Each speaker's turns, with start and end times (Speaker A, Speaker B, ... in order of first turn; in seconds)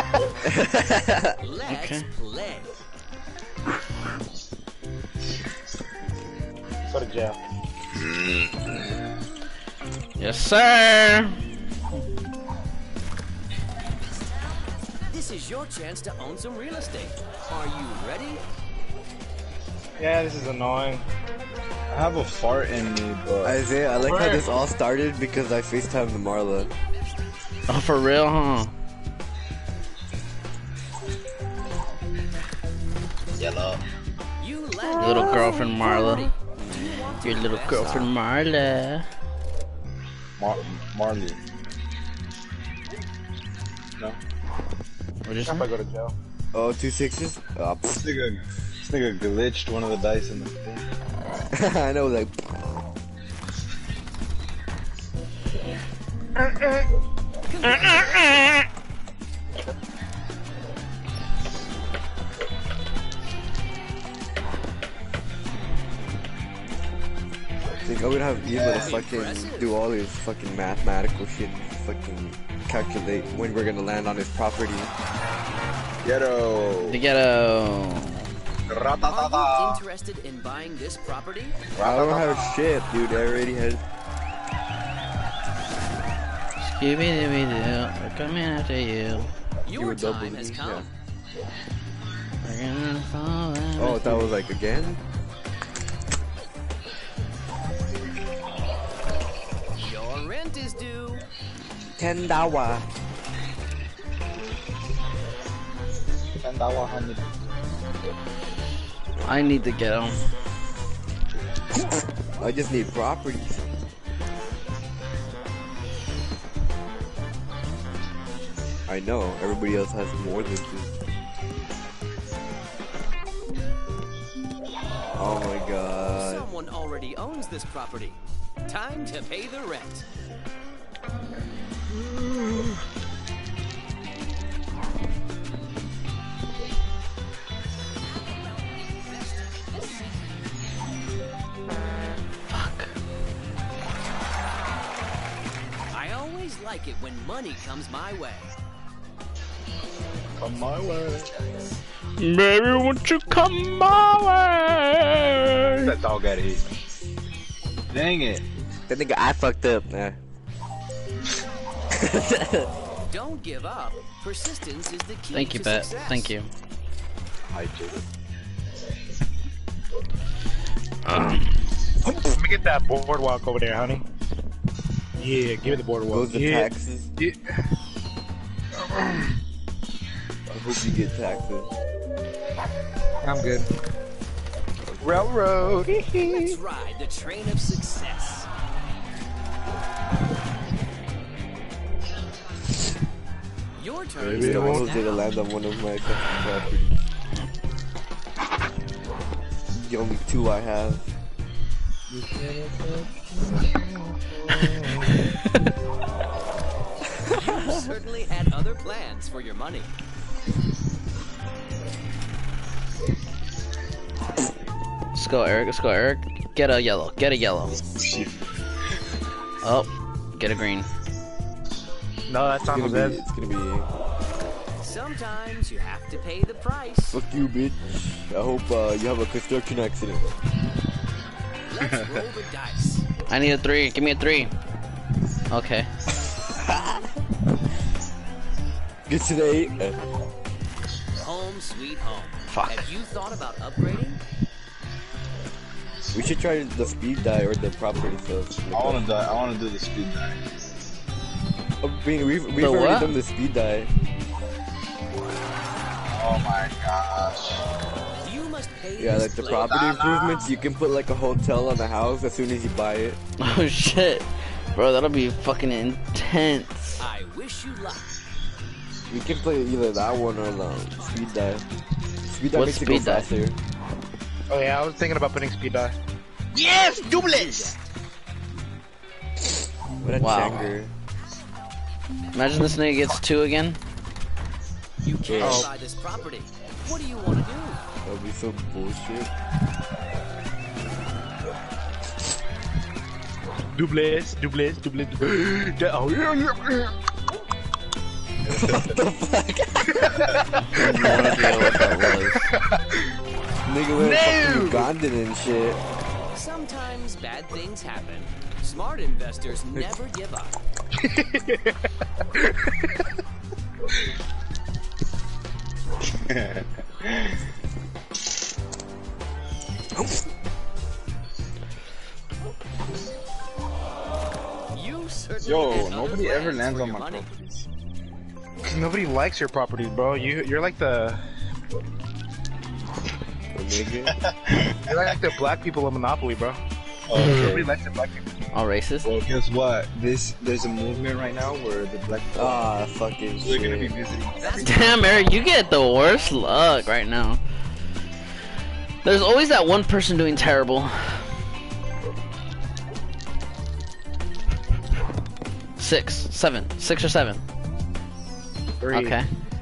Speaker A: 0.4-1.4, 23.4-26.7, 46.5-48.0, 51.5-52.8, 67.8-74.9, 81.8-83.8, 89.7-90.9, 93.8-95.0, 102.0-102.9, 112.4-113.6, 118.9-120.9, 125.1-126.5, 158.9-160.2, 161.9-162.7, 176.0-177.1, 180.5-181.7, 184.8-185.3, 194.2-197.0, 199.7-201.0, 222.6-223.9, 227.1-230.2, 236.5-237.1, 239.1-240.0, 246.1-249.1, 251.8-253.9, 259.0-263.2, 269.1-271.6, 272.2-273.6, 280.0-280.9, 285.2-285.7, 288.1-289.3, 298.5-300.2, 300.7-302.4, 303.6-305.8, 333.5-334.1, 342.3-344.0
Speaker B: 1.4-2.7, 15.0-18.4, 34.4-35.7, 36.6-38.1, 57.5-58.3, 68.7-69.8, 79.0-81.7, 89.6-90.9, 99.8-101.2, 126.1-130.0, 138.2-139.9, 145.9-148.5, 163.1-166.3, 186.2-188.5, 193.8-195.2, 207.3-209.9, 224.8-227.2, 231.7-233.1, 241.2-244.2, 258.2-259.8, 267.0-268.1, 276.6-277.9, 285.0-287.8, 306.3-310.5, 324.7-327.3, 344.4-345.3
Speaker C: 1.7-2.0, 10.2-11.4, 27.7-28.7, 35.0-39.1, 45.2-45.6, 76.9-78.3, 86.6-89.3, 92.4-94.3, 109.2-110.2, 142.5-142.9, 152.2-155.9, 165.3-166.5, 171.0-171.6, 215.1-217.8, 219.6-220.9, 233.3-234.5, 235.5-235.9, 242.5-242.9, 252.6-253.2, 263.4-267.0, 272.5-273.3, 280.2-280.7, 282.3-283.8, 300.8-302.5, 338.5-339.1, 344.6-347.4, 349.0-351.2, 355.8-357.4, 358.9-359.3
Speaker D: 6.9-7.4, 20.0-21.1, 24.0-24.4, 45.5-46.1, 56.4-56.9, 172.1-174.0, 175.2-177.6, 178.8-179.3, 183.2-183.7, 185.0-186.6, 194.3-194.9, 203.5-205.2, 222.3-223.2, 274.5-275.9, 285.4-285.7, 293.7-296.9, 299.9-300.8, 302.3-302.6, 304.0-304.9, 311.0-311.8, 312.4-312.9, 328.7-331.2, 334.8-336.6, 337.2-338.3, 358.8-359.2
Speaker E: 21.9-23.6, 33.4-33.8, 40.4-41.4, 47.9-50.8, 68.5-69.0, 76.0-77.0, 78.7-79.8, 81.8-82.5, 106.4-107.3, 150.4-151.3, 155.8-156.6, 157.9-158.4, 167.5-168.0, 202.1-203.6, 217.9-218.3, 231.8-232.2, 248.7-250.5, 256.1-257.6, 259.5-260.5, 316.2-317.4, 325.4-327.6, 334.2-335.1, 337.1-337.7, 339.0-342.7, 343.4-345.1